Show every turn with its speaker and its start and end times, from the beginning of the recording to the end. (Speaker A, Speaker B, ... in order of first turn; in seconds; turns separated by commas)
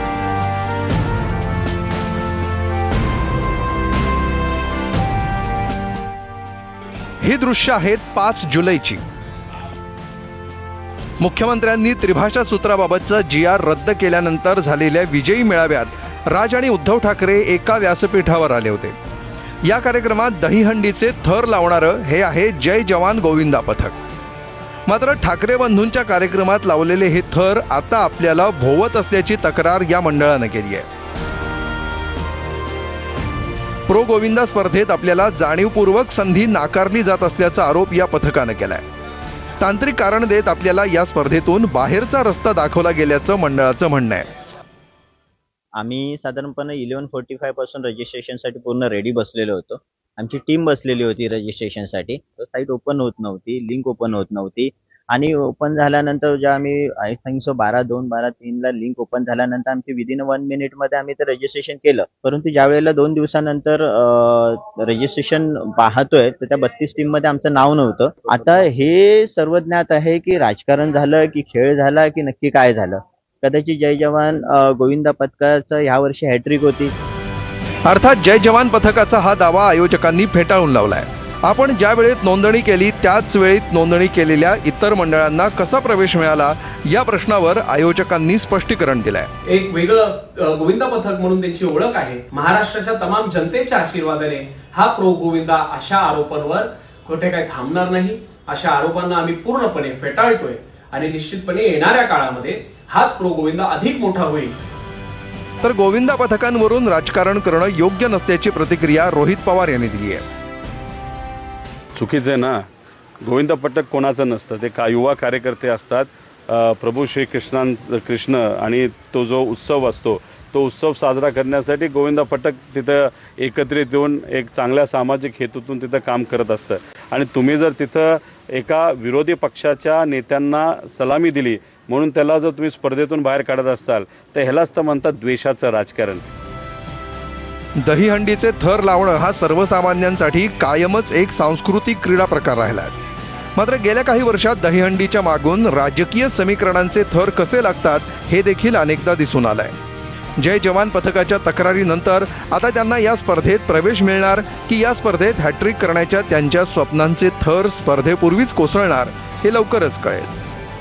Speaker A: 7.2-9.0, Speaker A: 11.2-18.9, Speaker A: 19.6-24.0, Speaker A: 24.9-30.9, Speaker A: 33.9-38.8, Speaker A: 39.6-44.3, Speaker B: 45.8-76.9, Speaker A: 77.8-89.3, Speaker C: 89.5-104.5, Speaker A: 105.6-110.2, Speaker D: 111.9-112.6, Speaker D: 113.2-136.2, Speaker A: 137.8-142.9, Speaker A: 143.6-149.8, Speaker A: 150.4-160.3